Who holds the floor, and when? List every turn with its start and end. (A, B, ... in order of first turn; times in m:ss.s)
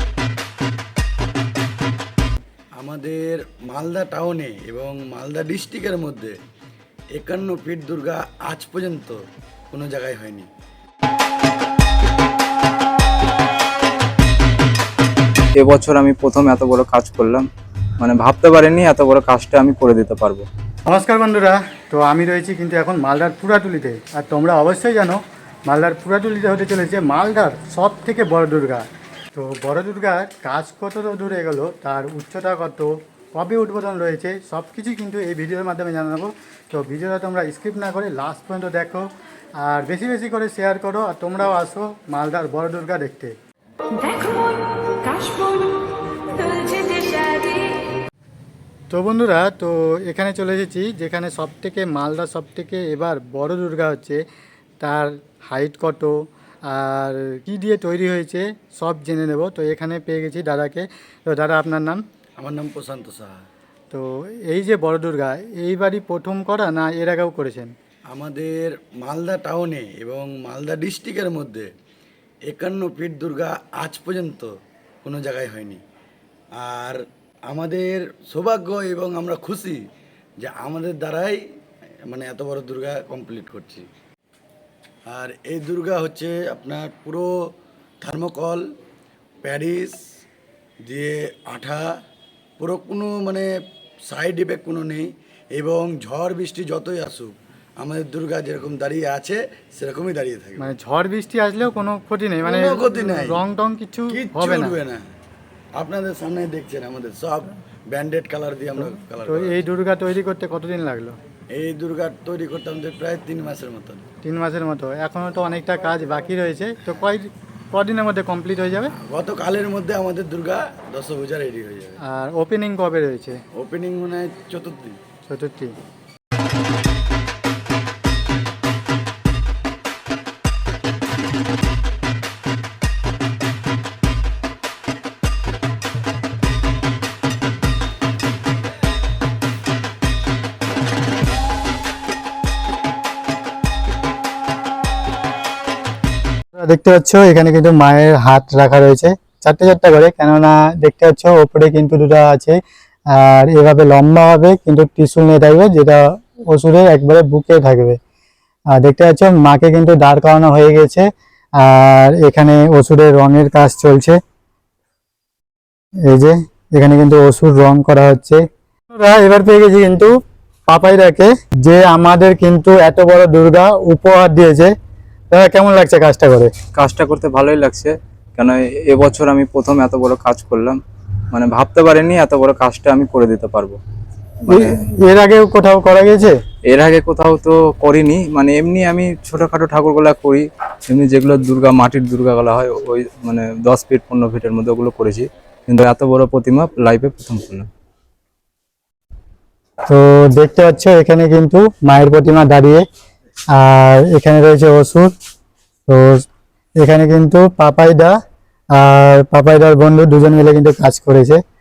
0:02.8-0:06.4 A
0:07.1-0:09.2 A
0:09.7-0:10.5 A
0:15.6-0:17.5 B
0:18.0-0:20.5 B
0:20.9-0:39.1 C
0:39.6-0:43.3 C
0:43.9-0:47.8 D
0:48.9-0:54.2 C
0:54.8-1:02.0 C
1:02.4-1:03.4 A
1:03.9-1:07.7 C
1:08.1-1:11.7 A
1:12.5-1:14.5 A
1:15.0-1:15.8 A
1:16.6-1:19.8 A
1:20.4-1:21.4 A
1:22.1-1:23.9 A
1:25.1-1:27.3 A
1:28.0-1:28.6 A
1:29.4-1:30.0 A
1:30.8-1:31.9 A
1:32.6-1:33.5 A
1:34.1-1:40.7 A
1:40.6-1:44.8 C
1:42.4-1:43.4 A
1:44.1-1:45.1 A
1:45.8-1:49.6 A
1:48.8-1:51.2 C
1:51.6-1:54.0 A
1:54.2-1:58.9 C
1:59.0-2:02.0 A
2:02.1-2:03.4 C
2:03.5-2:05.0 A
2:05.3-2:05.7 C
2:26.6-2:32.6 C
2:33.1-2:38.0 C
2:38.7-2:41.1 C
2:41.6-2:44.2 C
2:46.1-2:50.1 C
2:50.7-2:54.7 C
2:55.3-2:56.5 C
2:56.8-3:00.8 B
3:01.3-3:03.8 B
3:04.5-3:06.4 C
3:04.5-3:04.8 B
3:06.7-3:17.7 B
3:19.9-3:22.8 C
3:23.5-3:25.1 C
3:25.9-3:26.2 C
3:26.8-3:28.2 C
3:28.7-3:31.4 C